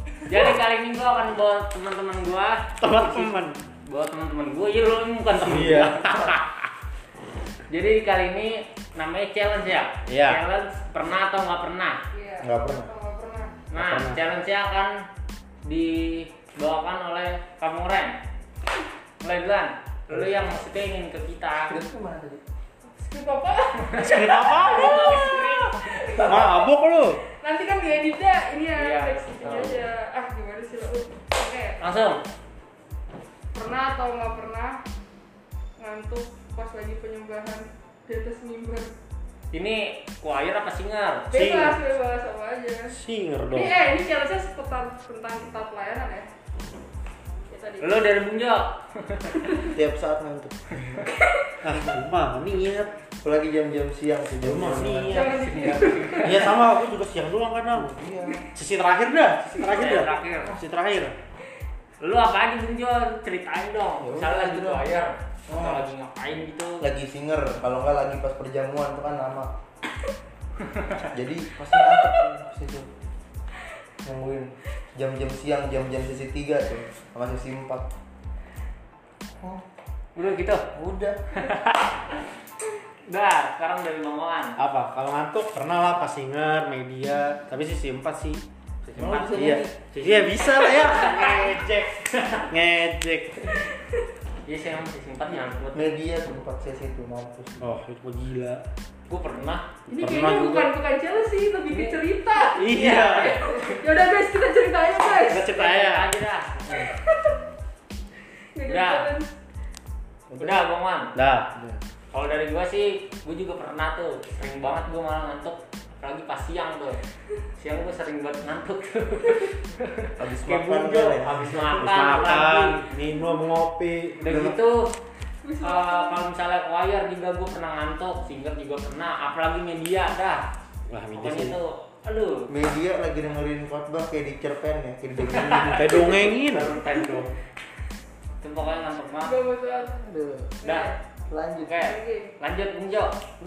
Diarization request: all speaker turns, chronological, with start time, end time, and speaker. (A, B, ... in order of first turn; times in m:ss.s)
0:00.2-0:06.4 A
0:02.8-0:03.6 B
0:05.4-0:06.4 B
0:07.7-0:12.0 A
0:10.1-0:10.4 B
0:12.1-0:13.7 C
0:12.4-0:12.9 D
0:13.7-0:14.9 A
0:13.7-0:14.2 B
0:15.6-0:18.2 A
0:19.2-0:21.8 A
0:21.6-0:22.4 D
0:22.9-0:31.8 C
0:23.8-0:26.2 A
0:24.0-0:24.9 B
0:26.1-0:27.2 B
0:28.7-0:29.7 A
0:31.8-0:32.2 A
0:33.5-0:34.8 C
0:35.8-0:38.9 C
0:39.5-0:41.3 A
0:41.3-0:43.0 C
0:41.3-0:41.8 B
0:42.9-0:43.8 B
0:43.5-0:46.3 C
0:47.5-0:48.0 C
0:47.8-0:49.5 A
0:49.4-0:49.7 C
0:49.6-0:51.0 D
0:51.2-0:51.5 C
0:51.6-0:52.9 B
0:53.2-0:55.2 D
0:54.4-0:55.3 B
0:55.1-0:56.6 C
0:55.2-0:56.5 A
0:56.2-0:57.9 B
0:57.7-0:58.4 D
0:58.5-1:01.1 B
0:59.6-1:00.6 A
1:02.0-1:06.8 A
1:04.0-1:04.8 D
1:05.5-1:05.8 D
1:06.8-1:09.5 D
1:10.7-1:11.0 A
1:11.0-1:12.9 D
1:14.0-1:17.8 D
1:20.1-1:20.7 A
1:20.7-1:21.2 D
1:21.3-1:22.0 A
1:23.0-1:24.6 A
1:24.6-1:28.4 B
1:28.8-1:32.5 A
1:29.0-1:29.7 D
1:29.3-1:31.9 B
1:32.5-1:33.4 B
1:34.4-1:35.9 A
1:35.7-1:37.6 D
1:37.6-1:38.6 B
1:39.1-1:39.7 A
1:39.9-1:45.5 C
1:40.0-1:40.7 B
1:41.7-1:42.0 A
1:42.6-1:43.4 B
1:42.6-1:43.8 A
1:45.1-1:46.0 B
1:45.4-1:46.9 A
1:46.9-1:47.3 C
1:48.5-1:49.3 C
1:48.6-1:49.1 A
1:50.3-1:50.6 D
1:50.4-1:51.2 A
1:51.1-1:51.5 B
1:51.5-1:51.8 D
1:52.1-1:57.0 A
1:57.6-2:02.9 A
2:00.2-2:02.1 D
2:01.6-2:04.4 B
2:04.2-2:04.9 A
2:04.3-2:04.6 D
2:05.4-2:06.2 C
2:05.6-2:10.4 A
2:10.9-2:11.6 B
2:11.1-2:12.5 A
2:12.5-2:15.9 D
2:15.4-2:17.3 A
2:15.7-2:16.7 B
2:18.4-2:19.4 A
2:19.2-2:20.1 C
2:20.0-2:20.5 D
2:20.6-2:20.9 A
2:20.6-2:20.9 C
2:21.3-2:21.7 D
2:21.6-2:23.2 A
2:21.8-2:22.3 C